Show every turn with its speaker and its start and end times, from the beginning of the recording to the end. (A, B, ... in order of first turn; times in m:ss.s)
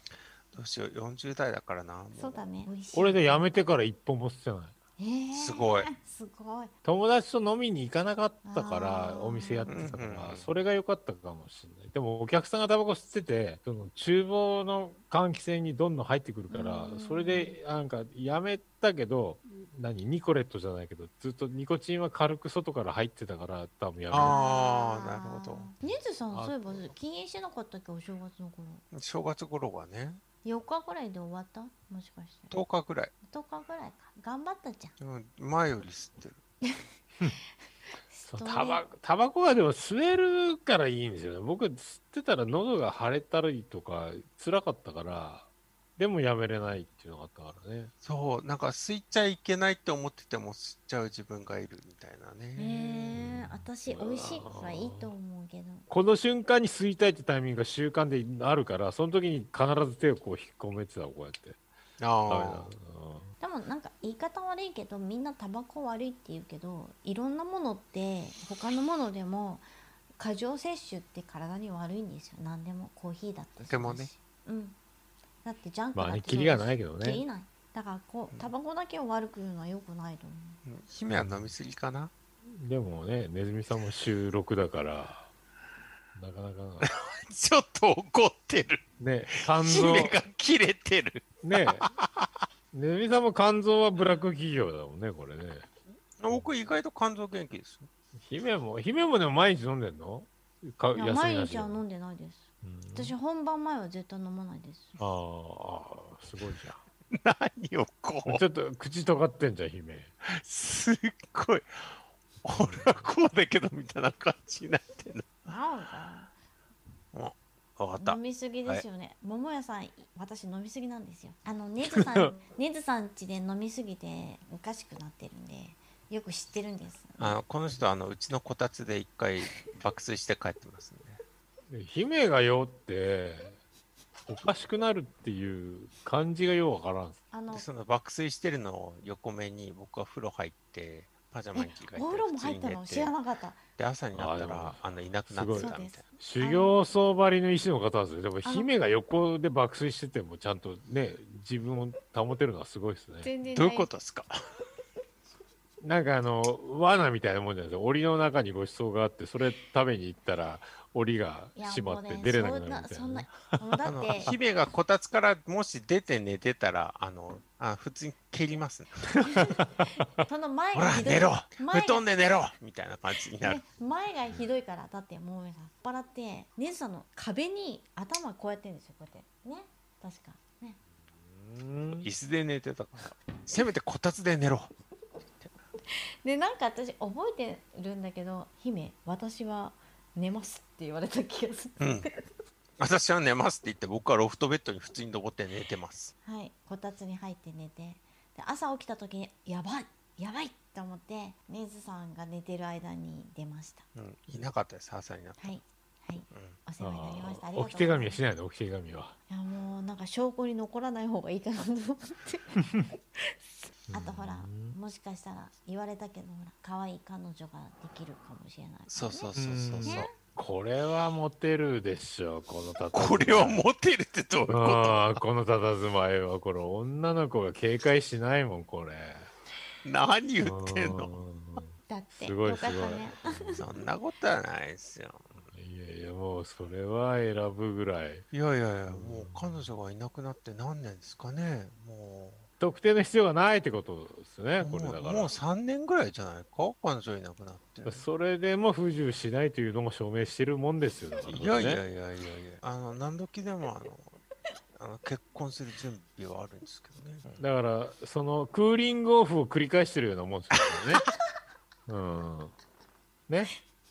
0:00.5-0:02.4 A
0:02.1-0:03.5 B
0:02.9-0:04.7 C
0:05.0-0:06.7 B
0:05.3-0:05.9 A
0:06.8-0:24.4 C
0:08.4-0:09.9 B
0:09.7-0:10.5 A
0:16.5-0:17.6 B
0:24.1-0:25.7 A
0:24.2-0:28.8 B
0:26.3-0:26.9 C
0:28.9-0:30.2 A
0:30.4-0:32.5 B
0:32.5-0:33.1 A
0:33.2-0:34.9 B
0:35.0-0:36.4 A
0:38.1-0:38.8 B
0:38.3-0:47.9 C
0:48.0-0:53.1 A
0:52.6-0:55.9 B
0:53.1-0:55.1 C
0:55.9-1:01.6 C
1:02.0-1:02.7 A
1:02.3-1:03.3 C
1:03.4-1:09.6 B
1:10.2-1:14.8 B
1:13.6-1:14.1 A
1:15.4-1:20.6 B
1:15.9-1:17.2 C
1:20.6-1:22.1 A
1:21.1-1:21.5 C
1:22.5-1:25.3 C
1:26.1-1:26.9 C
1:26.8-1:28.8 A
1:29.0-1:30.1 C
1:29.4-1:32.3 A
1:31.4-1:31.9 C
1:32.7-1:35.7 C
1:36.2-1:37.9 A
1:38.2-1:41.8 C
1:40.9-1:45.0 B
1:42.6-1:43.1 C
1:45.0-1:46.8 C
1:47.1-1:48.4 A
1:48.2-1:50.1 C
1:50.3-1:51.9 A
1:52.4-1:55.3 A
1:52.6-1:53.1 C
1:55.4-1:56.3 B
1:57.1-1:58.8 A
1:58.0-2:07.4 B
2:01.8-2:02.3 C
2:07.2-2:11.2 A
2:11.7-2:13.6 C
2:14.3-2:17.2 C
2:17.3-2:17.6 B
2:17.5-2:23.1 A
2:21.5-2:23.6 B
2:23.8-2:26.0 A
2:24.1-2:33.3 C
2:25.6-2:26.8 B
2:28.4-2:28.7 B
2:33.2-2:33.9 B
2:33.5-2:34.4 A
2:35.8-2:43.7 C
2:41.6-2:44.3 B
2:43.8-2:49.1 A
2:49.2-2:50.0 C
2:49.2-2:52.0 B
2:50.7-2:53.6 A
2:53.4-3:00.8 B
3:01.1-3:02.1 C
3:02.0-3:04.7 A
3:05.9-3:12.3 B
3:11.8-3:12.1 A
3:12.8-3:16.1 A
3:16.2-3:23.8 B
3:23.9-3:25.6 A
3:25.4-3:28.2 B
3:26.3-3:26.6 A
3:26.8-3:29.2 C
3:29.3-3:39.3 B
3:33.9-3:34.8 C
3:38.9-3:40.1 A
3:39.3-3:43.6 C
3:39.8-3:40.1 B
3:42.9-3:45.2 A
3:44.5-3:49.3 C
3:49.8-3:51.2 A
3:50.4-3:53.9 C
3:51.9-3:53.6 B
3:53.6-3:55.3 A
3:55.3-3:58.2 C
3:58.3-4:02.4 A
3:58.9-3:59.7 C
4:02.6-4:05.3 C
4:04.6-4:08.0 A
4:07.8-4:11.8 C
4:11.2-4:14.2 A
4:14.8-4:17.4 A
4:17.4-4:21.1 C
4:21.9-4:22.5 C
4:23.3-4:23.5 C